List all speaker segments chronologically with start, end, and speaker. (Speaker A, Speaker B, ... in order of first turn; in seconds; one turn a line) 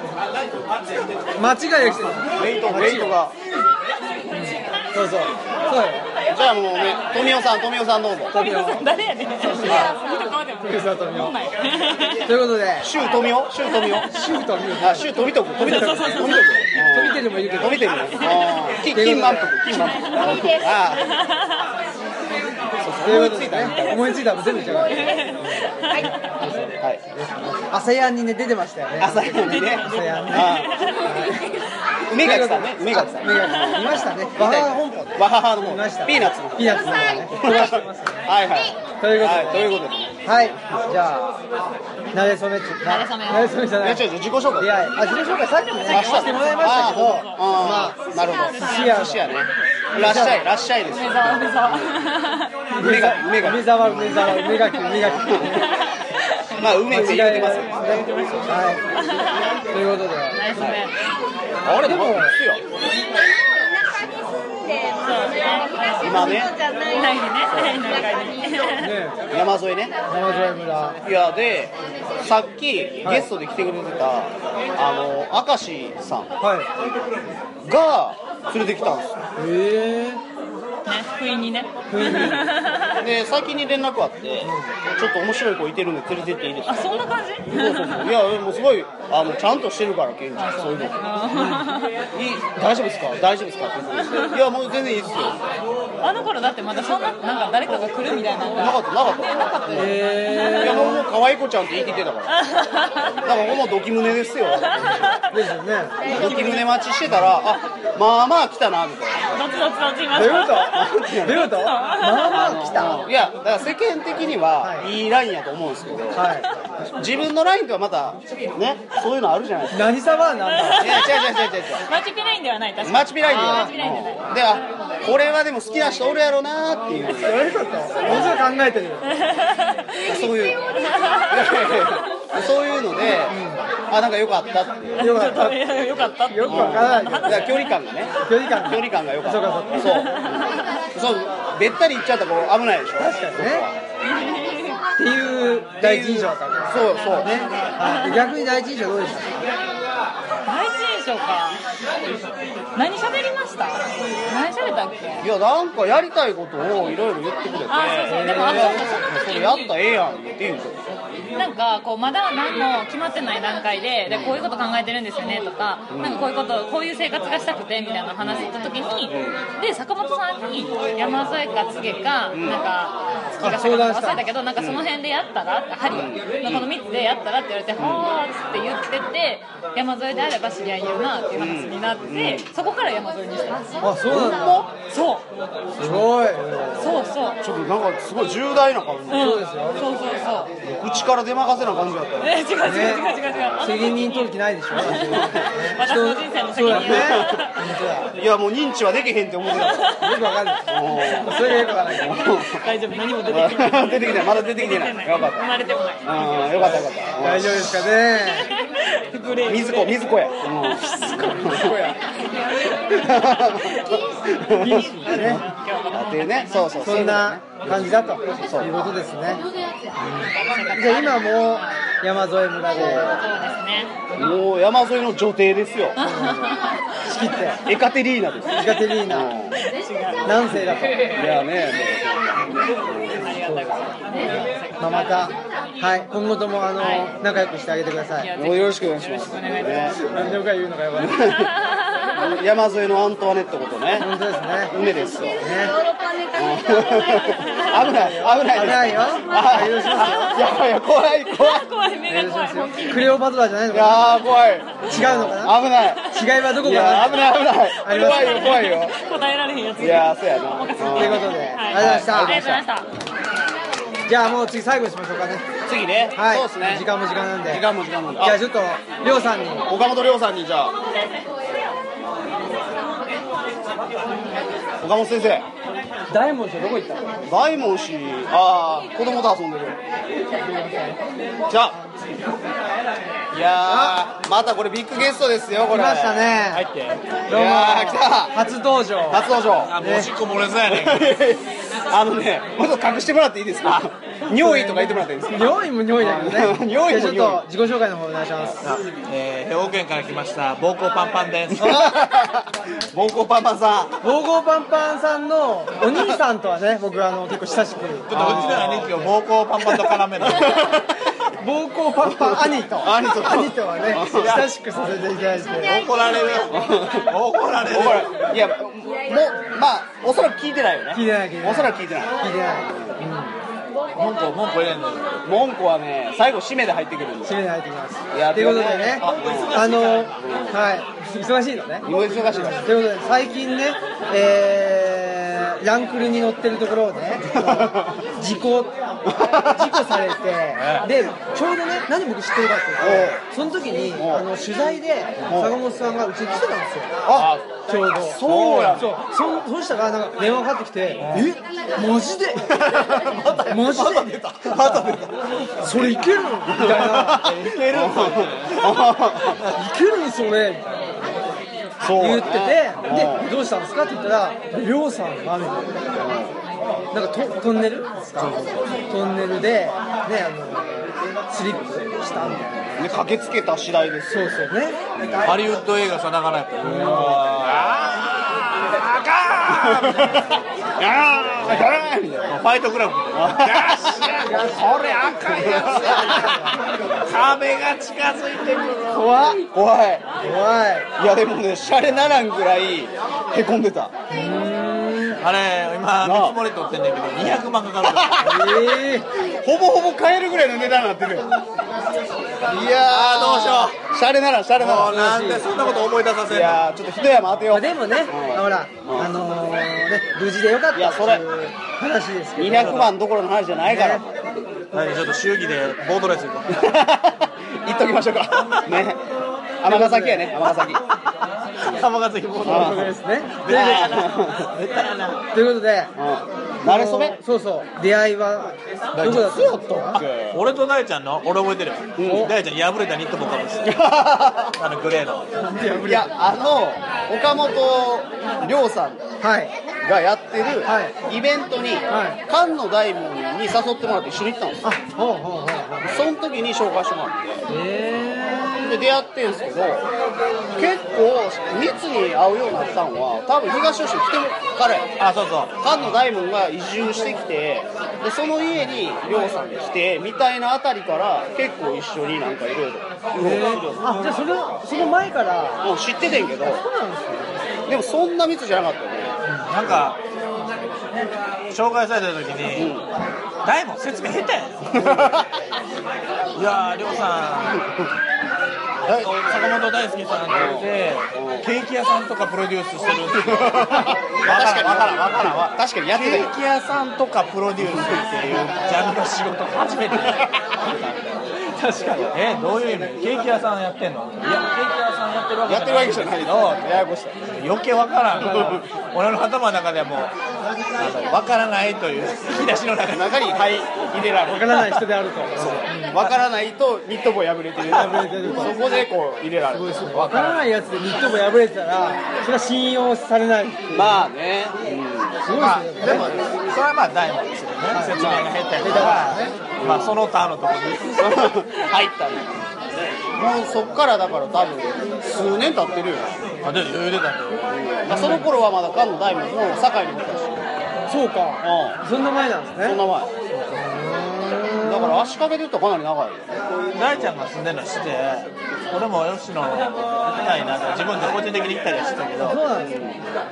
Speaker A: 1.4-3.2
Speaker B: 2.2-3.4
Speaker A: 4.3-6.1
Speaker B: 6.3-8.3
Speaker A: 8.3-8.9
Speaker C: 8.3-12.3
Speaker A: 9.4-9.9
Speaker B: 9.7-10.0
Speaker D: 9.7-10.4
Speaker A: 10.6-11.4
Speaker A: 12.2-12.9
Speaker B: 12.8-14.1
Speaker C: 13.7-14.1
Speaker A: 14.1-17.9
Speaker B: 14.8-21.1
Speaker C: 15.6-16.7
Speaker C: 18.1-18.5
Speaker A: 18.9-19.6
Speaker C: 19.8-21.6
Speaker D: 20.1-21.0
Speaker B: 22.8-24.2
Speaker A: 23.0-31.4
Speaker C: 23.9-24.4
Speaker D: 24.6-25.3
Speaker C: 24.9-26.1
Speaker D: 25.9-26.1
Speaker B: 29.0-30.8
Speaker C: 29.4-31.5
Speaker B: 32.1-40.5
Speaker A: 32.2-38.3
Speaker A: 39.0-41.4
Speaker A: 42.1-48.0
Speaker C: 42.8-43.7
Speaker B: 43.8-44.9
Speaker C: 45.8-49.2
Speaker B: 45.9-52.0
Speaker A: 48.5-49.2
Speaker A: 50.0-50.4
Speaker C: 50.9-52.5
Speaker A: 52.7-55.7
Speaker B: 52.8-54.4
Speaker B: 55.0-55.6
Speaker C: 55.6-56.7
Speaker B: 56.6-58.1
Speaker A: 56.9-58.8
Speaker C: 57.8-59.5
Speaker A: 59.7-60.4
Speaker C: 60.3-60.9
Speaker B: 61.6-62.6
Speaker A: 61.8-62.4
Speaker D: 62.9-68.7
Speaker C: 65.0-68.9
Speaker B: 66.0-66.6
Speaker B: 67.5-67.8
Speaker A: 68.8-69.2
Speaker B: 69.3-69.9
Speaker A: 70.1-71.0
Speaker B: 71.0-76.3
Speaker A: 73.0-73.3
Speaker A: 76.4-76.7
Speaker B: 77.7-79.2
Speaker A: 79.4-80.2
Speaker C: 80.9-83.0
Speaker A: 81.9-82.4
Speaker B: 82.0-82.4
Speaker B: 83.0-91.0
Speaker A: 84.4-84.7
Speaker C: 86.7-88.1
Speaker C: 90.4-91.9
Speaker A: 91.3-91.6
Speaker B: 92.2-95.4
Speaker C: 96.0-98.8
Speaker B: 98.5-100.0
Speaker A: 99.7-101.0
Speaker C: 100.2-100.9
Speaker B: 100.6-102.3
Speaker C: 102.3-103.2
Speaker B: 103.2-105.2
Speaker C: 104.7-105.1
Speaker A: 105.3-106.4
Speaker D: 106.0-106.7
Speaker B: 106.1-109.2
Speaker C: 106.3-106.7
Speaker C: 109.3-112.7
Speaker A: 110.1-113.0
Speaker B: 110.7-111.5
Speaker B: 112.3-116.2
Speaker A: 114.6-114.9
Speaker A: 116.1-116.5
Speaker B: 117.0-119.9
Speaker A: 119.7-120.9
Speaker C: 120.6-124.4
Speaker B: 120.8-121.8
Speaker B: 122.8-127.5
Speaker A: 123.2-123.7
Speaker A: 127.2-129.1
Speaker B: 128.0-128.4
Speaker C: 129.1-131.9
Speaker B: 130.0-130.6
Speaker B: 131.3-133.4
Speaker A: 133.3-133.7
Speaker B: 133.9-135.0
Speaker C: 135.0-137.8
Speaker A: 135.0-135.7
Speaker A: 136.3-137.5
Speaker B: 136.5-143.8
Speaker A: 138.2-140.1
Speaker C: 139.8-140.7
Speaker A: 143.0-143.7
Speaker C: 144.0-144.8
Speaker A: 145.0-149.4
Speaker B: 145.8-147.3
Speaker C: 147.0-148.2
Speaker C: 150.5-151.6
Speaker C: 152.8-155.3
Speaker B: 155.2-160.8
Speaker C: 157.7-159.7
Speaker A: 158.1-158.9
Speaker C: 161.4-185.3
Speaker B: 164.1-164.4
Speaker B: 165.9-166.2
Speaker B: 168.2-168.5
Speaker B: 169.1-169.4
Speaker B: 172.3-172.6
Speaker A: 173.4-174.3
Speaker B: 174.6-174.9
Speaker B: 175.9-176.7
Speaker B: 177.8-178.1
Speaker B: 181.3-182.5
Speaker A: 183.8-184.7
Speaker B: 184.1-184.7
Speaker A: 185.8-186.9
Speaker C: 186.8-187.4
Speaker B: 187.4-189.3
Speaker C: 189.1-190.5
Speaker A: 189.1-189.8
Speaker B: 190.7-192.4
Speaker C: 192.2-197.5
Speaker A: 192.6-193.1
Speaker A: 193.6-198.2
Speaker B: 194.8-195.5
Speaker B: 196.7-197.4
Speaker B: 198.2-199.9
Speaker C: 199.5-200.1
Speaker A: 200.0-202.2
Speaker B: 200.7-202.6
Speaker C: 202.4-206.8
Speaker B: 203.3-205.5
Speaker B: 206.0-207.7
Speaker A: 206.6-208.5
Speaker C: 208.5-214.1
Speaker B: 209.5-211.8
Speaker A: 211.3-212.0
Speaker B: 212.9-218.9
Speaker A: 214.6-215.4
Speaker C: 214.7-217.1
Speaker A: 216.8-219.4
Speaker A: 220.0-223.2
Speaker C: 220.2-221.8
Speaker B: 222.7-223.2
Speaker C: 223.0-224.0
Speaker B: 224.2-226.0
Speaker C: 226.0-226.7
Speaker A: 226.0-226.5
Speaker A: 227.1-227.6
Speaker B: 227.7-229.6
Speaker A: 228.5-229.3
Speaker C: 229.6-231.2
Speaker A: 230.2-231.1
Speaker B: 231.0-233.3
Speaker C: 233.2-235.3
Speaker A: 233.4-238.3
Speaker C: 236.8-237.1
Speaker C: 238.2-240.0
Speaker B: 238.4-240.4
Speaker A: 240.0-241.2
Speaker B: 241.0-241.5
Speaker C: 241.4-242.2
Speaker B: 242.2-244.1
Speaker A: 244.0-244.7
Speaker B: 244.7-245.4
Speaker A: 245.4-245.8
Speaker D: 245.4-247.8
Speaker B: 246.4-251.7
Speaker A: 247.8-250.4
Speaker C: 249.4-253.2
Speaker A: 252.1-254.1
Speaker B: 253.7-258.9
Speaker A: 254.9-255.6
Speaker A: 256.1-258.7
Speaker C: 257.9-262.9
Speaker B: 259.8-262.7
Speaker A: 260.9-262.4
Speaker A: 264.1-265.4
Speaker B: 265.7-266.9
Speaker A: 266.1-267.7
Speaker B: 267.4-268.4
Speaker A: 268.2-269.7
Speaker B: 269.7-270.8
Speaker B: 274.8-275.5
Speaker A: 276.1-277.1
Speaker B: 277.3-279.8
Speaker A: 280.4-281.0
Speaker B: 281.5-281.8
Speaker B: 283.3-286.3
Speaker A: 283.7-284.0
Speaker A: 285.7-286.7
Speaker E: 286.5-287.2
Speaker B: 287.3-288.4
Speaker A: 287.3-289.3
Speaker B: 289.1-289.8
Speaker E: 289.6-291.2
Speaker A: 289.8-290.1
Speaker B: 290.7-297.4
Speaker A: 294.3-298.7
Speaker E: 298.6-301.8
Speaker B: 301.6-303.9
Speaker A: 304.0-309.0
Speaker E: 308.1-310.7
Speaker B: 308.1-309.0
Speaker B: 309.8-310.8
Speaker A: 311.4-315.8
Speaker B: 312.0-314.4
Speaker E: 314.2-314.5
Speaker D: 315.6-316.4
Speaker E: 315.7-318.1
Speaker B: 316.5-317.1
Speaker B: 317.6-322.2
Speaker A: 320.9-323.4
Speaker E: 323.9-325.2
Speaker B: 325.2-327.4
Speaker A: 327.2-352.9
Speaker B: 328.1-330.6
Speaker E: 329.0-330.0
Speaker B: 331.8-332.7
Speaker B: 337.3-338.0
Speaker B: 339.1-339.8
Speaker E: 340.6-340.9
Speaker B: 342.8-343.2
Speaker B: 343.9-344.3
Speaker B: 345.3-345.6
Speaker B: 347.1-348.9
Speaker E: 351.0-351.3
Speaker B: 352.6-355.1
Speaker A: 353.5-355.0
Speaker A: 355.6-357.6
Speaker B: 355.6-356.0
Speaker B: 356.5-359.4
Speaker E: 357.7-358.6
Speaker A: 359.5-360.9
Speaker B: 361.8-363.3
Speaker A: 362.0-366.0
Speaker B: 366.0-366.4
Speaker A: 366.9-372.8
Speaker E: 368.2-368.8
Speaker B: 372.2-374.4
Speaker A: 374.1-374.8
Speaker B: 375.0-375.3
Speaker E: 375.2-380.3
Speaker B: 376.6-377.9
Speaker A: 376.7-377.1
Speaker B: 379.5-380.2
Speaker B: 380.8-382.3
Speaker E: 382.3-389.1
Speaker B: 383.1-384.1
Speaker A: 384.2-384.6
Speaker A: 385.4-386.5
Speaker A: 388.9-389.4
Speaker B: 389.3-390.1
Speaker A: 390.2-390.9
Speaker B: 391.0-393.9
Speaker A: 394.1-395.2
Speaker E: 395.2-398.6
Speaker B: 396.0-396.4
Speaker A: 398.2-399.1
Speaker B: 399.4-401.3
Speaker B: 402.5-405.0
Speaker E: 402.6-403.8
Speaker E: 404.6-406.6
Speaker A: 404.9-405.5
Speaker B: 406.3-409.1
Speaker A: 407.5-412.9
Speaker B: 410.8-411.2
Speaker B: 412.4-414.2
Speaker E: 412.6-412.9
Speaker A: 413.6-414.0
Speaker E: 414.7-416.7
Speaker B: 416.6-419.0
Speaker B: 419.6-420.8
Speaker A: 419.7-420.4
Speaker E: 421.6-425.2
Speaker B: 422.4-422.9
Speaker A: 422.4-423.9
Speaker B: 423.5-424.4
Speaker A: 425.3-425.9
Speaker B: 426.0-427.2
Speaker A: 426.6-430.0
Speaker E: 428.9-433.9
Speaker B: 429.9-430.4
Speaker B: 432.0-432.3
Speaker A: 432.1-432.3
Speaker B: 433.6-434.6
Speaker E: 434.6-435.3
Speaker A: 435.4-436.1
Speaker B: 435.8-439.1
Speaker A: 439.2-439.5
Speaker B: 439.8-444.7
Speaker A: 440.6-441.0
Speaker A: 441.9-442.2
Speaker A: 444.6-446.0
Speaker B: 445.8-447.4
Speaker A: 447.5-448.8
Speaker B: 448.6-449.9
Speaker B: 450.5-455.0
Speaker E: 455.0-455.8
Speaker B: 455.6-464.0
Speaker A: 463.2-467.4
Speaker B: 465.6-466.6
Speaker B: 467.7-469.9
Speaker E: 469.3-470.0
Speaker E: 470.9-472.7
Speaker B: 472.6-472.9
Speaker E: 473.4-475.2
Speaker B: 474.7-475.3
Speaker E: 476.4-477.6
Speaker E: 478.9-500.1
Speaker B: 480.3-481.5
Speaker B: 483.2-486.4
Speaker B: 487.6-489.0
Speaker B: 495.5-497.4
Speaker A: 498.2-498.6
Speaker B: 498.3-498.6
Speaker E: 500.8-503.2
Speaker B: 502.9-504.7
Speaker A: 504.3-505.9
Speaker B: 505.4-510.4
Speaker A: 507.7-508.6
Speaker A: 509.5-514.1
Speaker B: 513.7-515.3
Speaker A: 515.2-516.1
Speaker E: 515.4-521.2
Speaker B: 515.8-516.2
Speaker A: 517.7-518.0
Speaker B: 518.0-519.0
Speaker A: 518.6-519.4
Speaker B: 519.6-520.0
Speaker B: 521.0-522.4
Speaker B: 523.2-526.2
Speaker E: 526.4-527.5
Speaker B: 527.5-530.4
Speaker A: 527.9-528.3
Speaker A: 530.9-532.8
Speaker B: 531.4-531.8
Speaker B: 532.6-533.1
Speaker A: 533.5-535.1
Speaker B: 534.6-536.3
Speaker E: 536.8-542.4
Speaker A: 542.2-542.8
Speaker B: 542.5-543.0